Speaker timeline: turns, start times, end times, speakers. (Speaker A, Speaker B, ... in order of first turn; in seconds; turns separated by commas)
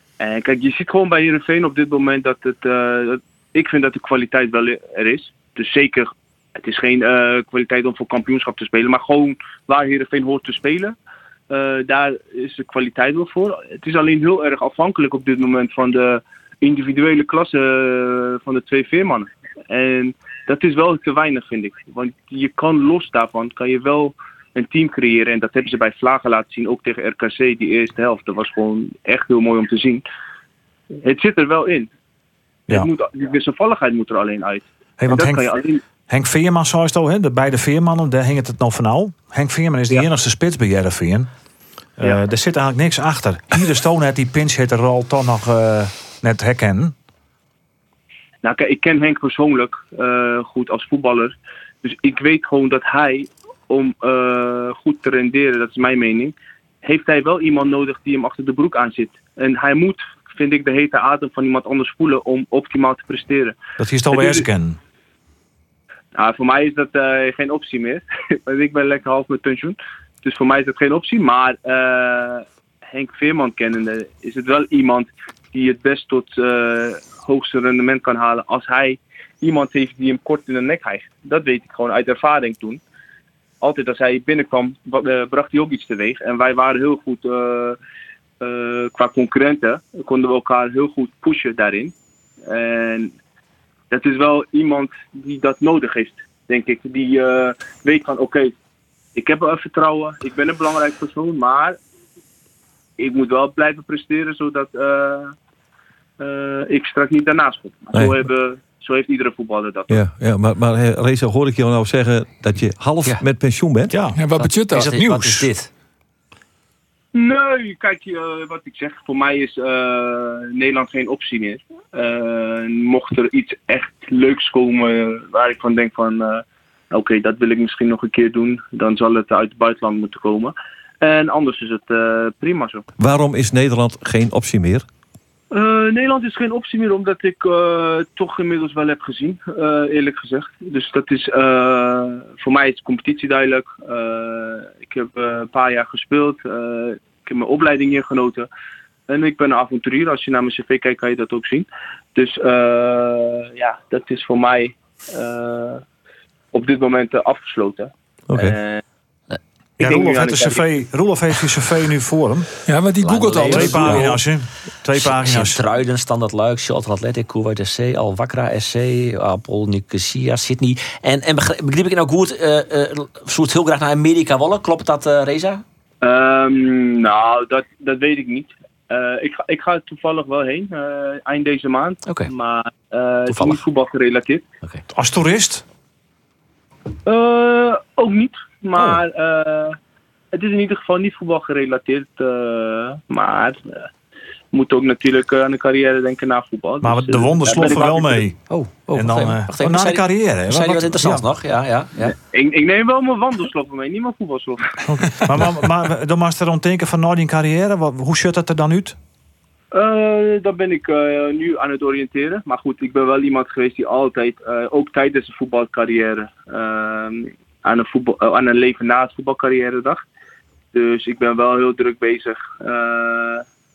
Speaker A: 0.2-10.9, Speaker A: 11.5-30.0, Speaker A: 31.0-31.9, Speaker A: 32.7-35.8, Speaker B: 35.0-35.5, Speaker B: 36.1-41.3, Speaker B: 42.0-47.0, Speaker A: 48.4-63.5, Speaker B: 63.8-64.8, Speaker A: 64.1-64.4, Speaker A: 66.2-82.8, Speaker A: 83.6-87.8, Speaker A: 88.4-91.9, Speaker A: 92.5-93.1, Speaker A: 93.9-98.5, Speaker A: 99.2-101.8, Speaker A: 103.0-105.3, Speaker A: 106.2-110.0, Speaker C: 109.9-114.0, Speaker B: 113.9-115.5, Speaker D: 114.2-114.9, Speaker E: 114.4-115.7, Speaker A: 117.1-132.8, Speaker C: 133.0-134.8, Speaker A: 135.5-148.5, Speaker A: 149.1-155.8, Speaker A: 156.5-158.8, Speaker C: 158.3-158.6, Speaker B: 159.8-162.5, Speaker A: 159.8-160.7, Speaker D: 162.7-164.1, Speaker E: 163.0-164.2, Speaker B: 163.5-165.6, Speaker E: 164.9-175.6, Speaker A: 176.0-184.4, Speaker E: 183.3-183.6, Speaker B: 184.9-185.6, Speaker A: 187.1-189.8, Speaker B: 188.8-189.0, Speaker A: 190.3-193.9, Speaker A: 194.5-198.3, Speaker B: 196.8-201.2, Speaker E: 198.5-202.2, Speaker A: 202.3-205.2, Speaker B: 204.9-209.0, Speaker A: 209.7-220.0, Speaker A: 220.7-223.4